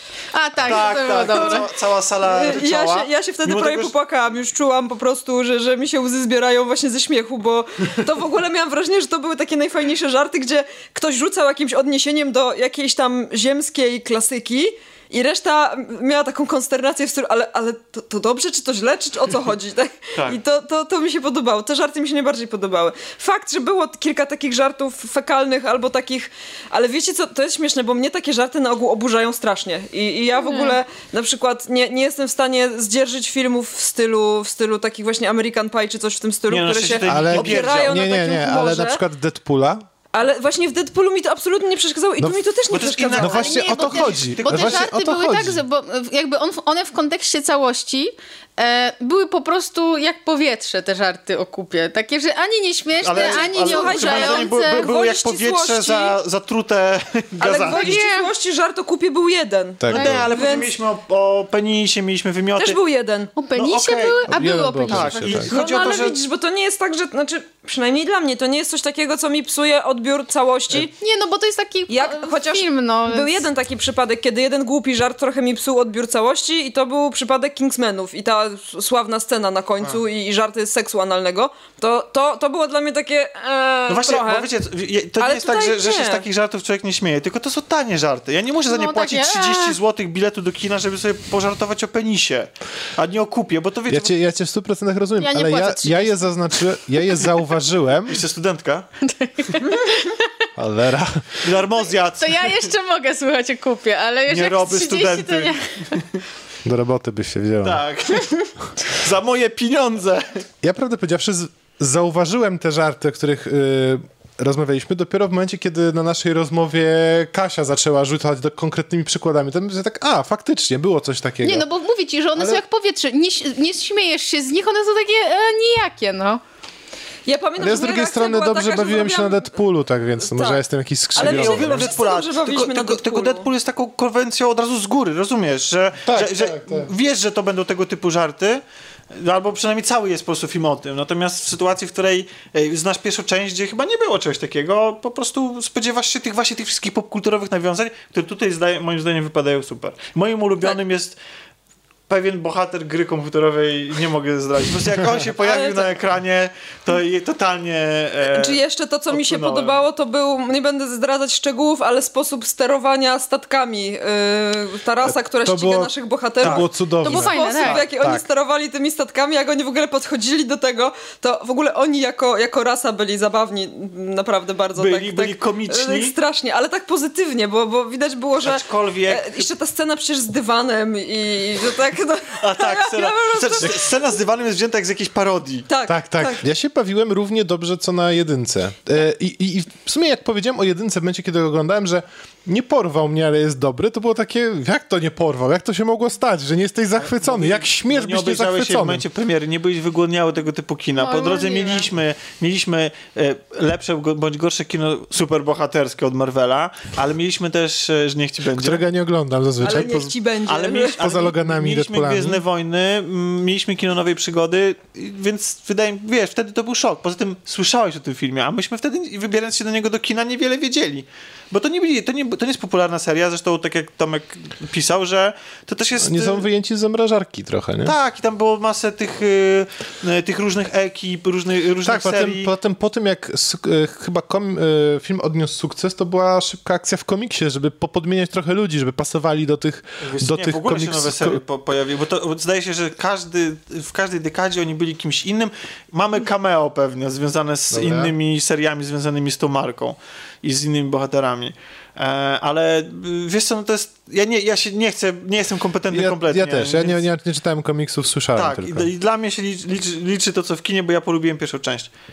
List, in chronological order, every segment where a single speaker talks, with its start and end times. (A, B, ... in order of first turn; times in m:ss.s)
0:00.3-0:01.7 A
0:00.6-0:03.9 B
0:01.3-0:01.6 C
0:02.2-0:39.0 C
0:30.4-0:30.8 A
0:36.5-0:38.0 B
0:37.1-0:39.8 D
0:40.1-0:43.4 C
0:42.7-0:44.9 B
0:43.1-0:54.9 A
0:43.2-0:45.6 D
0:53.0-0:58.0 B
0:53.1-0:56.2 C
0:57.4-1:00.7 C
0:57.4-0:58.3 A
0:59.8-1:00.3 D
0:59.9-1:02.8 B
0:59.9-1:00.3 A
1:02.6-1:03.3 C
1:03.4-1:06.0 A
1:03.5-1:04.3 B
1:04.3-1:05.5 D
1:04.8-1:06.2 B
1:05.5-1:10.9 C
1:10.8-1:13.4 A
1:11.9-1:24.5 C
1:23.9-1:34.1 B
1:25.2-1:26.2 C
1:28.7-1:29.8 A
1:33.9-1:38.2 D
1:35.2-1:37.3 A
1:38.1-1:38.9 B
1:39.0-1:40.3 A
1:40.6-1:41.4 D
1:41.4-1:42.7 B
1:42.2-1:46.0 A
1:44.3-1:46.2 B
1:46.6-1:47.8 D
1:47.6-1:50.4 B
1:50.6-2:01.7 D
2:01.4-2:06.4 A
2:02.4-2:02.6 D
2:07.3-2:09.5 C
2:07.6-2:11.9 D
2:10.2-2:10.6 C
2:11.2-2:13.5 C
2:11.2-2:31.2 B
2:16.1-2:16.9 D
2:32.1-2:39.8 B
2:35.4-2:35.9 C
2:38.3-3:03.9 C
2:45.0-2:48.2 D
2:47.0-2:47.8 A
2:54.8-2:56.2 B
2:58.4-2:59.5 B
3:02.4-3:05.7 B
3:05.7-3:06.4 C
3:05.9-3:19.0 D
3:17.0-3:28.8 B
3:21.0-3:21.9 A
3:28.5-3:30.1 D
3:29.6-3:31.0 C
3:30.5-3:46.4 B
3:31.0-3:32.4 D
3:46.0-3:48.0 D
3:47.8-3:52.5 B
3:51.8-4:01.4 D
4:00.0-4:17.0 B
4:07.7-4:08.1 D
4:15.9-4:18.9 D
4:18.4-4:21.9 B